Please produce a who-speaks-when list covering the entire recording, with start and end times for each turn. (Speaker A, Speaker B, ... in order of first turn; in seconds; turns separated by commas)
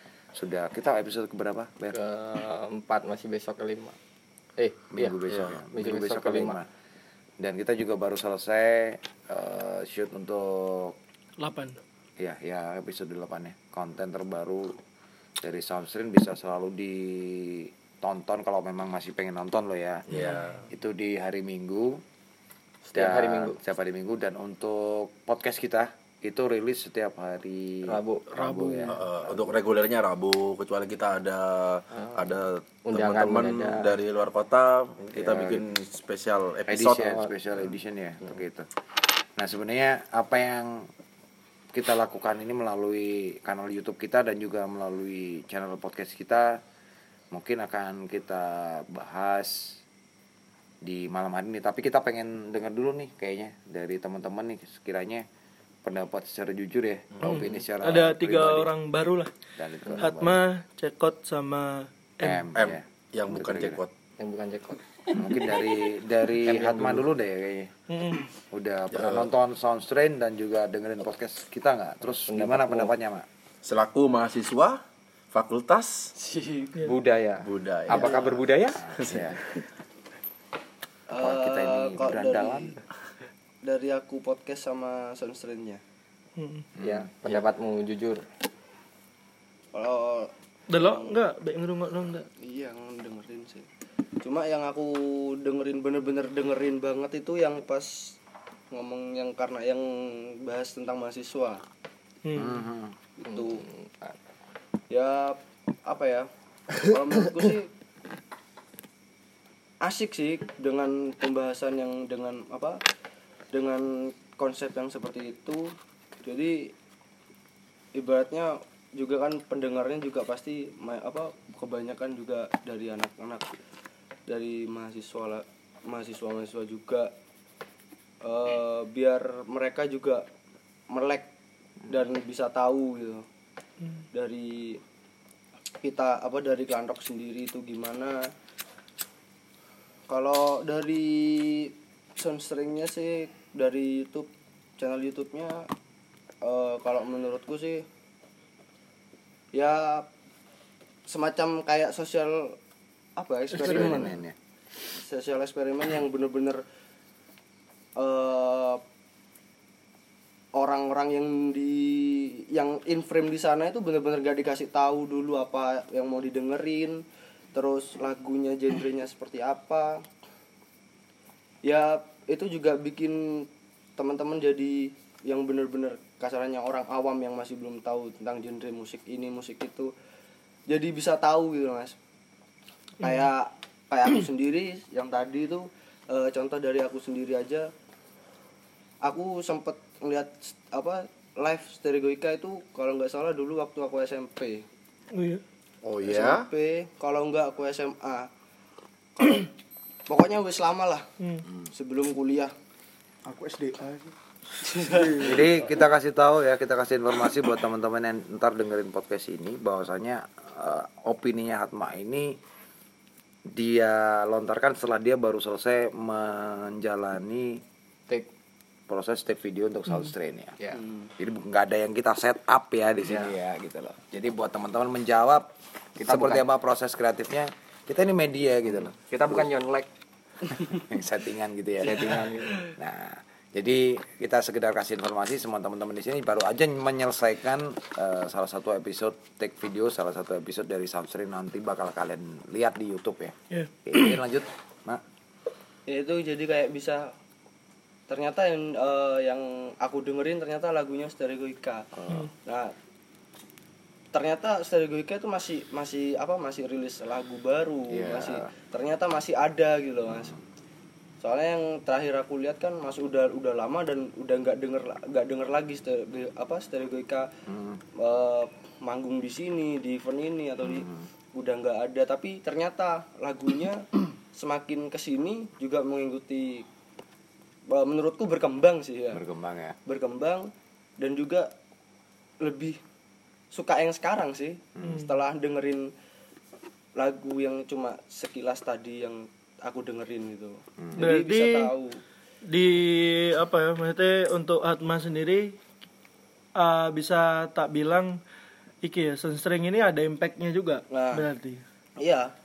Speaker A: 0.3-2.0, Speaker B: 1.9-4.0, Speaker B: 4.6-6.6, Speaker A: 4.9-6.7, Speaker C: 5.3-5.6, Speaker A: 7.4-10.9, Speaker D: 11.4-11.8, Speaker A: 12.2-14.7, Speaker A: 15.4-20.0, Speaker C: 20.1-20.6, Speaker A: 20.7-22.0, Speaker B: 22.9-23.6, Speaker A: 22.9-29.0, Speaker B: 27.9-29.0, Speaker C: 28.9-37.3, Speaker B: 31.9-33.9, Speaker A: 35.1-35.6, Speaker A: 36.7-38.7, Speaker A: 39.4-40.9, Speaker A: 41.7-46.6, Speaker A: 47.3-49.8, Speaker A: 50.8-55.2, Speaker A: 55.8-58.7, Speaker D: 57.2-59.3, Speaker A: 59.5-60.4, Speaker D: 60.0-62.4, Speaker A: 62.2-63.8, Speaker C: 62.5-63.9, Speaker B: 64.2-65.1, Speaker A: 65.1-67.7, Speaker B: 66.4-67.0, Speaker D: 67.9-68.2, Speaker A: 68.5-73.2, Speaker C: 68.9-69.3, Speaker B: 72.3-72.9, Speaker C: 73.6-74.8, Speaker C: 75.3-76.1, Speaker B: 76.2-78.8, Speaker C: 77.4-78.3, Speaker A: 77.9-79.4, Speaker C: 78.9-79.6, Speaker E: 81.1-82.8, Speaker A: 81.2-82.8, Speaker E: 83.6-85.8, Speaker D: 86.4-86.6, Speaker A: 86.8-87.4, Speaker B: 86.8-88.2, Speaker E: 89.7-91.0, Speaker D: 90.7-92.2, Speaker E: 92.4-93.7, Speaker E: 94.2-98.2, Speaker E: 98.7-101.6, Speaker D: 102.2-102.6, Speaker A: 102.3-102.9, Speaker E: 103.2-103.6, Speaker B: 103.3-104.1, Speaker E: 104.9-107.7, Speaker E: 109.8-112.8, Speaker E: 113.5-116.7, Speaker E: 117.9-123.6, Speaker E: 124.3-127.1, Speaker E: 128.2-130.2, Speaker E: 130.9-131.3, Speaker E: 131.9-133.2, Speaker E: 134.1-134.8, Speaker E: 135.8-138.3, Speaker E: 140.1-145.7, Speaker E: 146.4-147.8, Speaker E: 149.5-150.1, Speaker E: 151.1-152.6, Speaker E: 153.2-154.2, Speaker A: 153.6-154.3, Speaker D: 153.6-154.0, Speaker E: 155.0-156.6, Speaker E: 157.9-158.8, Speaker E: 160.5-167.0, Speaker E: 167.5-170.0, Speaker E: 171.6-179.9, Speaker E: 180.7-181.9, Speaker D: 183.0-183.3, Speaker E: 183.0-187.7, Speaker E: 189.0-194.7, Speaker D: 195.1-195.4, Speaker C: 195.8-196.5, Speaker E: 196.0-198.3, Speaker E: 199.2-199.5, Speaker E: 200.1-201.1, Speaker E: 201.7-202.5, Speaker F: 203.2-205.5, Speaker A: 205.2-212.4, Speaker A: 213.5-217.6, Speaker A: 218.9-220.5, Speaker B: 220.6-220.8, Speaker A: 221.2-229.5, Speaker B: 223.1-223.3, Speaker B: 226.0-226.4, Speaker B: 228.9-229.9, Speaker A: 230.7-243.3, Speaker B: 231.8-232.6, Speaker D: 243.5-244.2, Speaker A: 243.8-245.0, Speaker E: 245.9-247.1, Speaker E: 248.1-251.9, Speaker A: 251.9-252.3, Speaker E: 252.4-252.7, Speaker E: 254.1-260.4, Speaker A: 257.9-258.5, Speaker E: 261.2-267.3, Speaker A: 267.5-267.8, Speaker E: 268.0-276.7, Speaker A: 270.6-271.0, Speaker E: 277.7-279.2, Speaker A: 279.1-279.8, Speaker E: 279.9-281.5, Speaker E: 282.4-282.8, Speaker E: 283.5-285.9, Speaker D: 284.8-285.1, Speaker E: 286.9-292.0, Speaker A: 290.8-291.1, Speaker D: 291.0-291.7, Speaker D: 292.5-295.5, Speaker D: 296.6-298.2, Speaker D: 298.8-301.6, Speaker E: 300.9-301.2, Speaker E: 302.0-302.3